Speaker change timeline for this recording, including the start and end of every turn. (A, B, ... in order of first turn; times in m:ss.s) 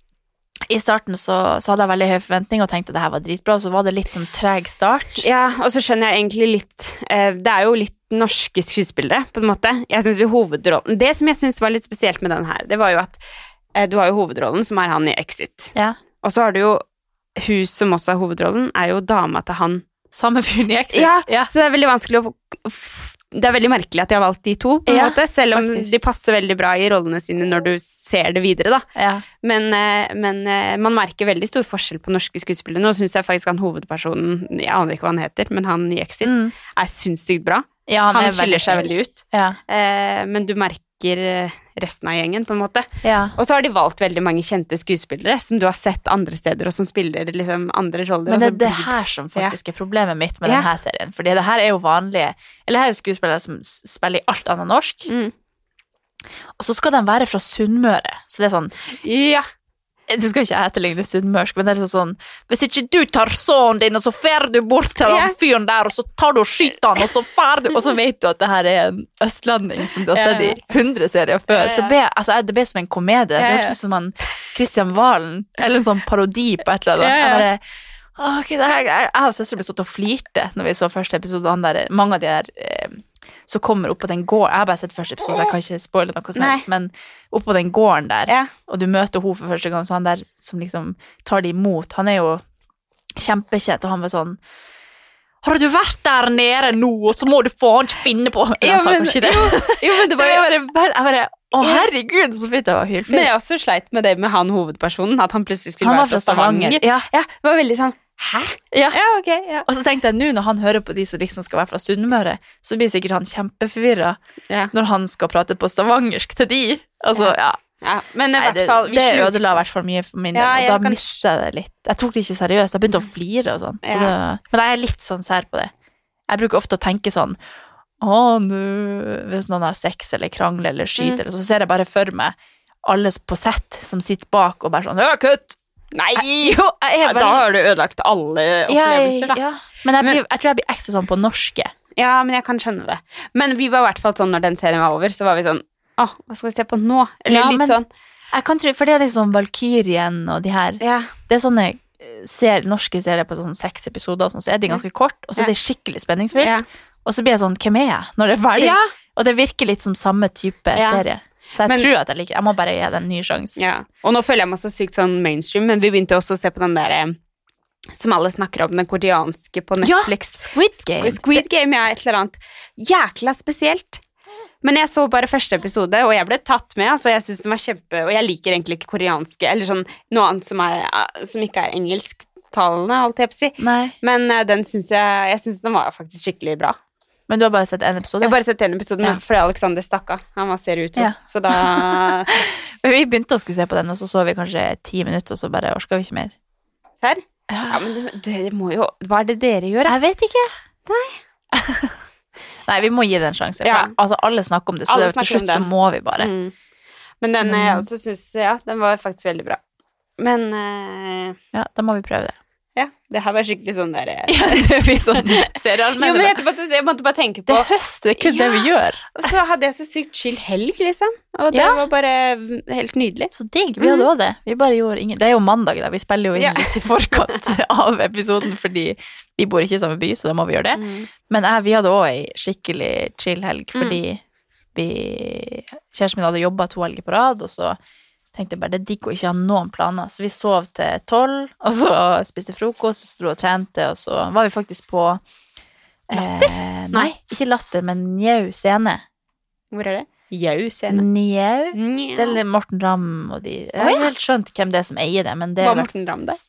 0:00.7-0:05.2 A
0:05.2-0:13.2 B
0:13.7-0:16.8 B
0:17.4-0:19.8 B
0:20.1-0:21.5 A
0:20.9-0:28.8 B
0:24.9-0:25.9 A
0:28.9-0:29.2 A
0:29.4-0:49.5 B
0:36.2-0:36.5 A
0:37.9-0:39.6 A
0:43.0-0:43.3 A
0:48.3-0:55.1 A
0:55.1-0:55.3 B
0:56.6-0:58.7 A
0:59.0-0:59.4 B
1:00.1-1:17.6 A
1:05.0-1:05.4 B
1:10.1-1:10.6 B
1:11.5-1:11.9 B
1:13.4-1:13.8 B
1:17.0-1:17.4 B
1:18.2-1:32.4 A
1:26.4-1:26.6 B
1:33.1-1:34.4 A
1:35.4-1:43.3 A
1:38.6-1:40.4 B
1:41.6-1:41.9 B
1:43.1-1:49.7 B
1:45.8-1:47.1 A
1:48.7-1:49.0 A
1:49.6-1:54.2 A
1:54.7-1:57.6 A
1:57.1-1:59.6 B
1:58.4-2:05.7 A
2:00.3-2:01.2 B
2:03.8-2:04.1 B
2:06.3-2:07.4 A
2:08.0-2:15.6 A
2:15.9-2:19.4 B
2:16.2-2:17.4 A
2:18.7-2:21.7 A
2:22.0-2:27.8 B
2:27.3-2:27.8 A
2:28.3-2:43.7 A
2:30.8-2:31.1 B
2:36.4-2:36.6 B
2:38.6-2:38.9 B
2:40.7-2:41.0 B
2:43.6-2:47.2 B
2:47.9-2:54.0 B
2:49.8-2:51.4 A
2:54.6-3:06.8 B
3:03.6-3:03.9 A
3:07.3-3:08.4 A
3:08.2-3:12.4 B
3:11.0-3:16.3 A
3:17.0-3:20.0 B
3:17.5-3:17.9 A
3:19.9-3:20.5 A
3:20.9-3:21.2 B
3:21.5-3:22.0 A
3:22.6-3:26.3 A
3:23.6-3:23.9 B
3:24.9-3:26.5 B
3:27.2-3:29.6 B
3:27.4-3:27.8 A
3:30.2-3:31.4 B
3:31.5-3:32.4 A
3:32.8-3:44.1 B
3:34.3-3:36.4 A
3:37.5-3:39.3 A
3:41.5-3:41.8 A
3:43.3-3:54.2 A
3:46.4-3:47.4 B
3:50.7-3:51.1 B
3:54.7-3:57.8 A
3:58.3-4:05.2 A
4:06.1-4:09.0 A
4:06.1-4:07.1 B
4:09.7-4:11.0 B
4:10.9-4:15.9 A
4:11.7-4:12.4 B
4:13.8-4:14.1 B
4:15.6-4:16.4 B